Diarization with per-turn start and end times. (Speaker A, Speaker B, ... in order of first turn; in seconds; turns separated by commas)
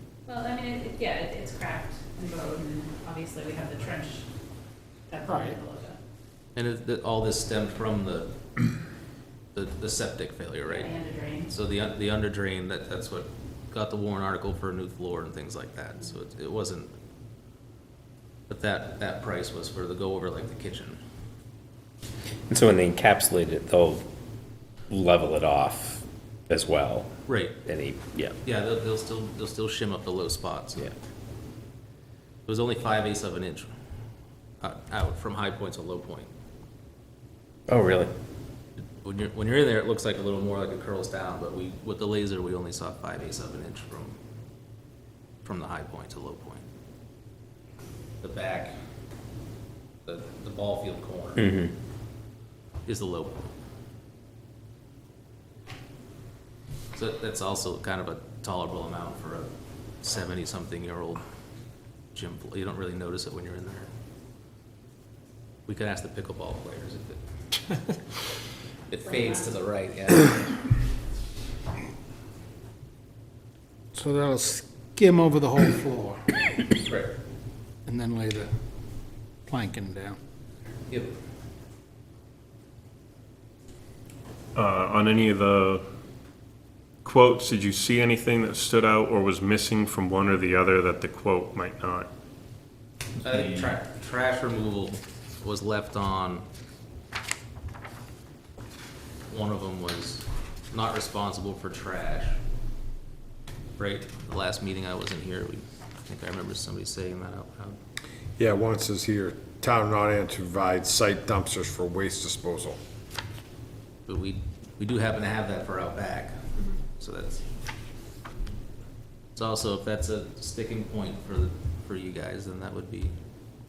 Speaker A: 0.3-4.2, Speaker A: 5.1-6.0, Speaker B: 5.2-5.6, Speaker C: 6.5-8.3, Speaker C: 9.5-10.9, Speaker A: 10.7-11.5, Speaker C: 11.5-16.9, Speaker C: 18.5-21.0, Speaker D: 22.5-24.0, Speaker D: 24.9-27.1, Speaker C: 27.3-27.6, Speaker D: 27.7-28.3, Speaker C: 28.4-30.9, Speaker C: 32.5-33.7, Speaker C: 34.6-36.3, Speaker D: 37.7-38.1, Speaker C: 39.0-44.2, Speaker C: 45.4-46.6, Speaker C: 48.2-48.7, Speaker C: 50.0-51.5, Speaker D: 51.4-51.7, Speaker C: 52.9-53.4, Speaker C: 56.9-59.5, Speaker C: 60.0-61.2, Speaker C: 62.1-63.9, Speaker C: 65.7-67.2, Speaker C: 68.9-70.4, Speaker A: 69.2-69.5, Speaker B: 73.9-76.6, Speaker C: 76.8-77.1, Speaker B: 77.8-78.5, Speaker B: 79.5-80.2, Speaker E: 84.5-85.8, Speaker E: 87.0-92.1, Speaker C: 93.2-96.4, Speaker C: 99.3-102.3, Speaker C: 103.8-107.8, Speaker F: 108.4-112.8, Speaker C: 114.1-116.3, Speaker C: 117.0-117.4, Speaker C: 119.3-123.1